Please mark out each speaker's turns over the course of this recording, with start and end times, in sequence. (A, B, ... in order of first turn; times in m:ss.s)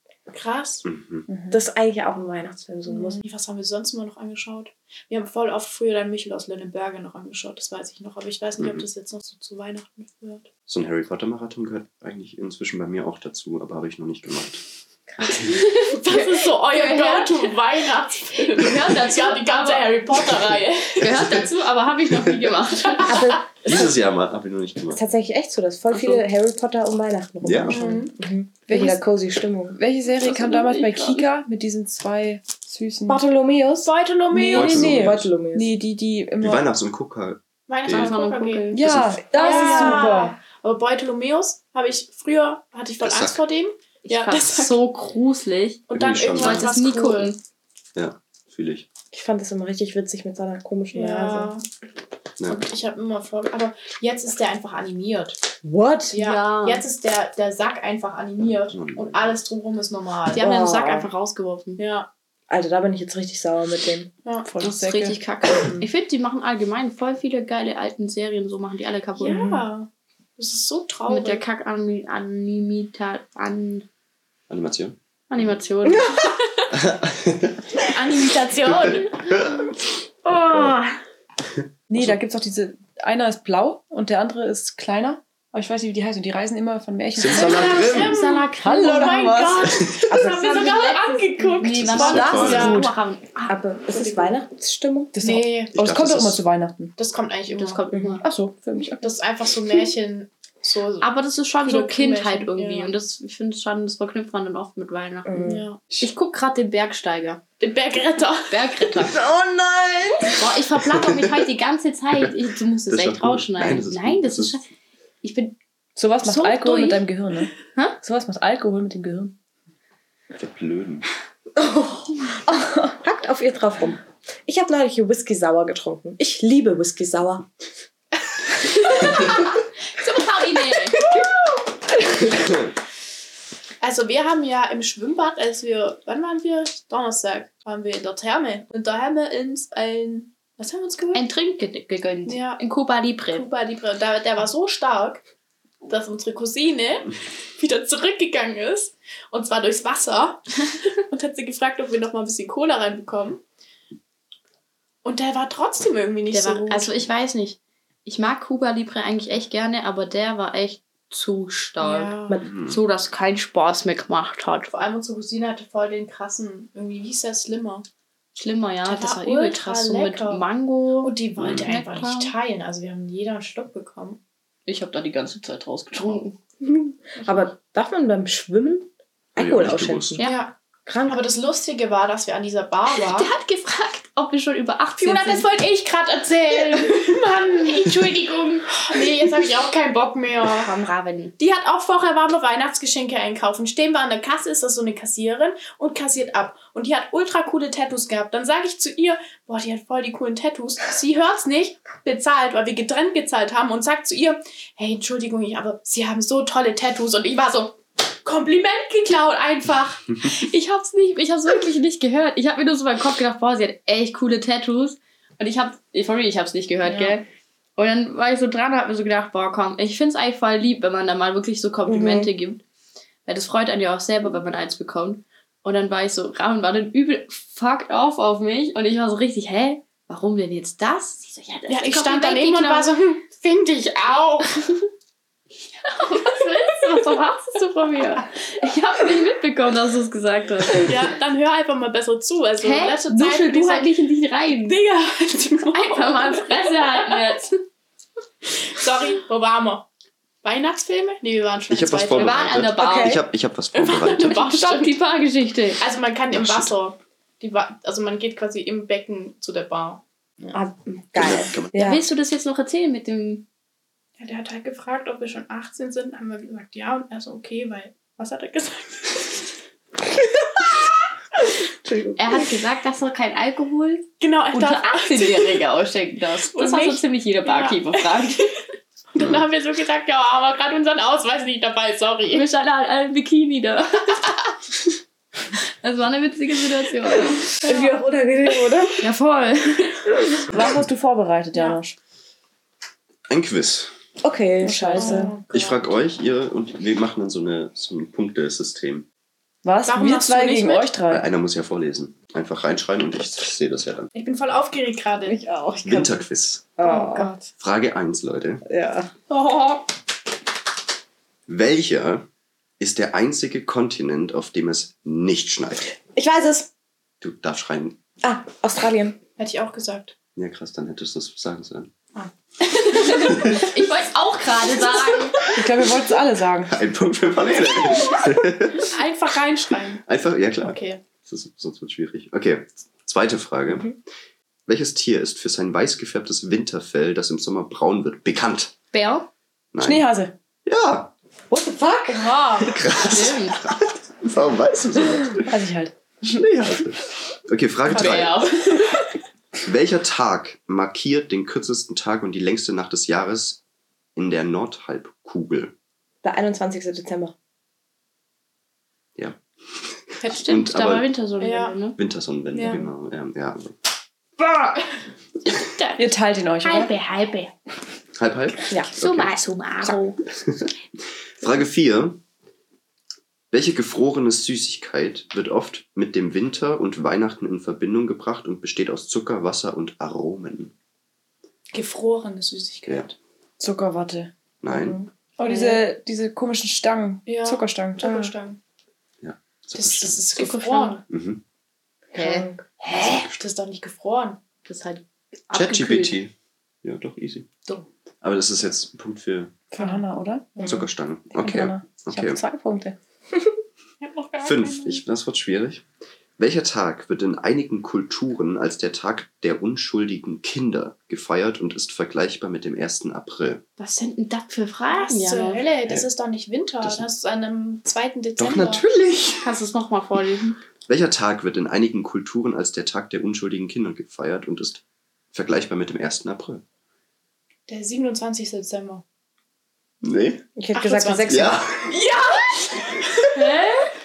0:00.3-0:00.8 A
0:00.8-0:01.3 B
0:01.3-0:01.6 C
0:01.5-0:03.2 D
0:02.9-0:10.5 A
0:08.6-0:08.8 B
0:10.7-0:14.6 B
0:15.2-0:17.6 E
0:15.8-0:21.4 A
0:18.3-0:20.0 E
0:21.0-0:23.3 E
0:23.0-0:23.9 D
0:23.6-0:25.0 B
0:24.9-0:29.8 D
0:25.9-0:26.2 E
0:27.4-0:27.8 B
0:27.7-0:28.1 A
0:28.7-0:29.0 C
0:29.7-0:33.2 C
0:30.2-0:31.2 E
0:33.1-0:33.9 D
0:33.8-0:35.0 A
0:34.3-0:36.7 C
0:34.5-0:35.3 B
0:34.8-0:35.8 D
0:36.4-0:38.2 B
0:37.7-0:38.8 A
0:37.9-0:40.0 E
0:38.7-0:40.4 C
0:38.8-0:39.2 B
0:39.3-0:44.8 A
0:39.5-0:40.1 D
0:43.0-0:43.4 B
0:44.0-0:47.4 E
0:45.9-0:47.3 A
0:45.9-0:46.8 B
0:47.9-0:48.9 B
0:49.1-0:51.5 D
0:50.9-0:51.6 A
0:52.5-0:55.4 A
0:55.6-0:56.2 D
0:56.1-1:00.5 A
0:56.2-0:56.8 E
0:58.7-0:59.4 B
1:00.3-1:01.8 E
1:00.4-1:01.1 D
1:01.8-1:02.1 A
1:02.5-1:04.1 D
1:04.4-1:05.2 C
1:04.6-1:09.5 E
1:05.5-1:05.9 D
1:09.2-1:11.4 A
1:09.3-1:09.6 D
1:11.1-1:13.8 E
1:14.5-1:15.5 B
1:15.3-1:16.2 E
1:15.8-1:16.3 D
1:16.7-1:17.8 B
1:17.8-1:19.2 A
1:18.6-1:20.8 B
1:21.9-1:27.9 C
1:21.9-1:22.2 B
1:27.2-1:28.2 B
1:27.3-1:32.9 A
1:27.8-1:29.4 E
1:28.6-1:29.7 C
1:29.7-1:30.0 B
1:30.0-1:31.1 D
1:30.5-1:33.6 E
1:31.7-1:32.8 B
1:32.3-1:32.9 C
1:33.5-1:35.2 D
1:33.9-1:34.3 A
1:35.1-1:36.9 C
1:35.2-1:35.8 A
1:35.7-1:36.4 B
1:37.0-1:37.8 A
1:37.5-1:38.2 E
1:37.9-1:38.2 D
1:38.2-1:39.1 C
1:39.0-1:41.1 A
1:41.0-1:47.4 E
1:41.6-1:42.9 A
1:45.2-1:45.6 D
1:45.4-1:45.8 A
1:47.6-1:48.6 A
1:48.5-1:49.2 E
1:49.0-1:50.4 D
1:50.4-1:54.6 E
1:52.9-1:54.6 B
1:55.2-1:55.5 E
1:56.0-1:59.4 C
1:56.2-1:57.0 E
2:00.3-2:01.1 B
2:01.6-2:07.4 D
2:08.9-2:09.3 E
2:10.0-2:11.1 E
2:13.8-2:21.2 A
2:21.1-2:23.5 E
2:22.3-2:22.6 A
2:23.3-2:25.2 A
2:25.8-2:33.4 A
2:35.0-2:37.0 A
2:36.3-2:44.8 E
2:41.8-2:42.4 A
2:42.4-2:42.8 B
2:44.7-2:47.8 A
2:48.3-2:52.3 E
2:48.8-2:50.4 A
2:51.0-2:54.2 A
2:51.4-2:51.7 B
2:54.7-2:56.4 E
2:56.6-3:00.2 D
2:59.4-3:00.2 B
3:00.2-3:00.4 E
3:00.2-3:00.5 A
3:00.8-3:01.2 D
3:01.0-3:03.3 A
3:03.0-3:05.5 E
3:05.0-3:10.7 A
3:10.5-3:11.3 E
3:11.4-3:30.3 A
3:30.4-3:37.2 E
3:36.8-3:37.2 A
3:37.8-3:42.6 E
3:41.9-3:42.3 D
3:43.2-3:52.9 E
3:51.7-3:54.8 A
3:55.8-4:00.9 E
4:00.7-4:03.9 A
4:02.6-4:04.8 E
4:04.5-4:07.3 A
4:05.7-4:07.6 E
4:08.5-4:09.8 A
4:10.4-4:12.4 A
4:11.7-4:14.4 B
4:12.2-4:13.2 E
4:12.8-4:13.2 D
4:13.7-4:14.9 A
4:14.2-4:15.8 E
4:15.8-4:20.6 A
4:16.3-4:16.7 B
4:20.5-4:22.0 D
4:21.1-4:21.9 B
4:21.7-4:23.4 E
4:24.2-4:29.4 A
4:31.8-4:32.5 D
4:32.2-4:38.6 E
4:34.2-4:35.6 A
4:36.5-4:38.4 A
4:39.1-4:42.4 A
4:39.2-4:39.4 B
4:42.3-4:44.2 E
4:45.8-4:47.5 E
4:47.6-4:48.0 A
4:47.6-4:49.0 D
4:49.0-4:50.0 E
4:50.5-4:52.0 C
4:53.3-4:53.9 B
4:54.2-4:55.3 D
4:54.6-4:55.3 C
4:55.0-4:55.8 A
4:55.5-4:59.0 B
4:59.6-5:01.3 C
4:59.8-5:01.0 A
5:01.1-5:04.1 B
5:04.1-5:05.4 A
5:05.3-5:06.2 D
5:05.8-5:06.7 B
5:06.8-5:07.3 D
5:06.8-5:07.5 A
5:07.6-5:08.6 B
5:08.6-5:09.1 D
5:09.3-5:09.8 A
5:11.5-5:12.2 B
5:12.8-5:15.9 B
5:16.1-5:16.7 D
5:17.2-5:18.0 B
5:18.2-5:19.2 D
5:19.4-5:20.1 A
5:20.4-5:21.9 B
5:22.8-5:25.4 E
5:22.8-5:23.3 A
5:25.5-5:26.7 C
5:26.6-5:28.9 B
5:28.8-5:30.0 A
5:30.0-5:34.0 B
5:30.6-5:31.0 A
5:34.7-5:38.7 B
5:38.9-5:39.3 E
5:39.7-5:40.1 B
5:39.8-5:40.3 C
5:40.6-5:41.1 B
5:41.5-5:42.4 D
5:42.1-5:42.8 A
5:42.6-5:45.6 B
5:43.0-5:43.6 E
5:45.4-5:46.4 C
5:46.2-5:48.4 B
5:47.9-5:49.0 E
5:49.6-5:53.6 B
5:54.2-5:55.7 B
5:56.2-5:57.3 D
5:59.2-6:01.1 B
6:00.2-6:02.0 E
6:01.4-6:01.8 A
6:02.0-6:03.8 B
6:02.5-6:02.9 A
6:05.8-6:06.0 E
6:06.0-6:06.9 C
6:06.6-6:07.5 E
6:08.2-6:09.4 B
6:08.9-6:10.2 E
6:10.4-6:10.7 B
6:11.4-6:12.2 B
6:13.5-6:20.7 B
6:21.7-6:23.1 A
6:22.8-6:23.1 B
6:23.6-6:24.3 C
6:24.6-6:25.0 B
6:24.7-6:25.5 D
6:25.4-6:28.3 C
6:25.5-6:25.8 A
6:27.2-6:28.6 A
6:29.2-6:30.2 B
6:29.8-6:31.0 A
6:30.5-6:30.9 E
6:31.1-6:31.4 B
6:32.1-6:32.6 D
6:32.1-6:33.3 E
6:33.0-6:33.3 B
6:33.2-6:34.4 A
6:34.6-6:36.2 E
6:35.5-6:37.5 B
6:38.2-6:39.6 B
6:39.7-6:40.7 C
6:40.6-6:42.4 B
6:41.3-6:43.0 C
6:44.0-6:45.0 A
6:44.4-6:45.8 B
6:46.4-6:53.6 B
6:53.8-6:55.6 E
6:54.9-6:58.8 A
6:56.8-6:57.1 B
6:58.4-6:59.5 B
6:59.4-7:00.6 E
7:00.9-7:04.8 B
7:05.3-7:06.6 B
7:07.7-7:09.0 A
7:10.0-7:10.5 B
7:10.6-7:11.6 D
7:10.7-7:13.7 A
7:11.2-7:12.0 B
7:13.3-7:13.9 E